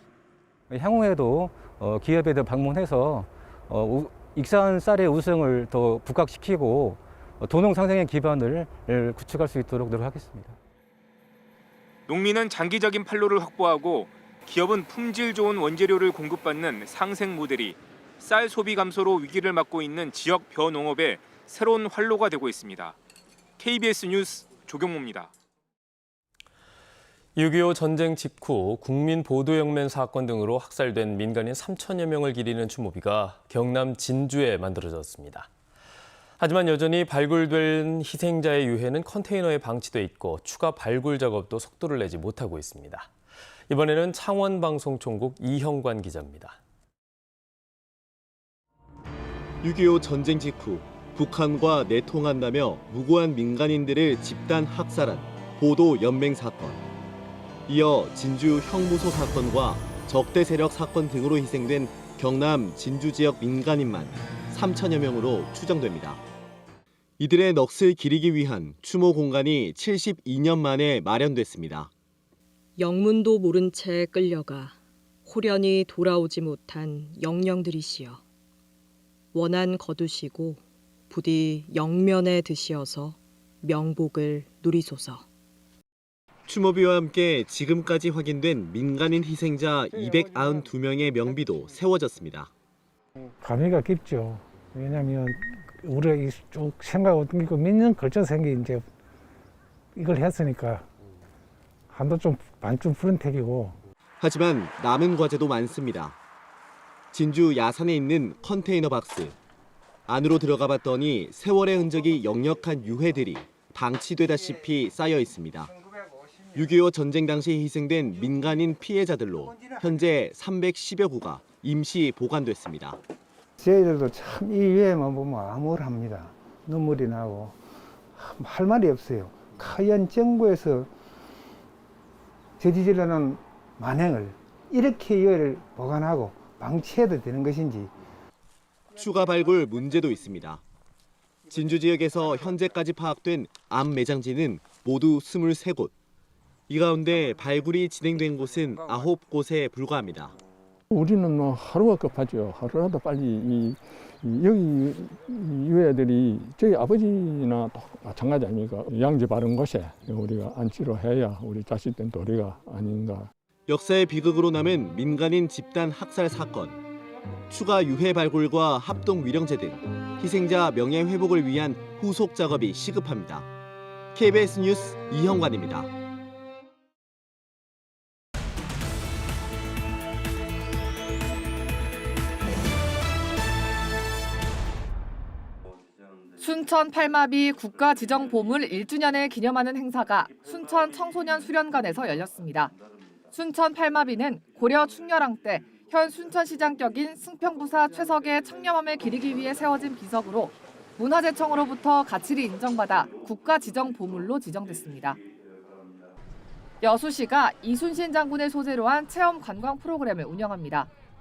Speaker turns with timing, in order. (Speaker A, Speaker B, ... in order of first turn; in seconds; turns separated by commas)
Speaker A: 0.7-10.6, Speaker B: 12.1-23.0, Speaker B: 23.6-25.3, Speaker C: 27.4-35.5, Speaker C: 36.4-43.1, Speaker C: 43.7-46.6, Speaker D: 49.6-56.8, Speaker D: 57.7-66.2, Speaker D: 67.2-71.9, Speaker E: 72.8-74.8, Speaker E: 75.3-78.2, Speaker E: 79.4-80.6, Speaker E: 81.2-83.2, Speaker E: 83.7-85.2, Speaker D: 86.5-92.5, Speaker F: 93.4-98.8, Speaker F: 100.0-100.8, Speaker F: 101.9-103.8, Speaker D: 104.2-106.2, Speaker D: 107.1-109.4, Speaker D: 110.1-115.7, Speaker D: 116.5-123.0, Speaker F: 123.6-127.6, Speaker F: 128.2-130.9, Speaker F: 132.6-137.9, Speaker D: 138.9-140.6, Speaker D: 141.5-145.9, Speaker D: 146.7-150.3, Speaker G: 150.9-163.3, Speaker D: 163.7-166.8, Speaker D: 167.5-173.5, Speaker D: 174.1-175.9, Speaker H: 186.4-192.7, Speaker H: 193.3-205.2, Speaker H: 206.8-210.9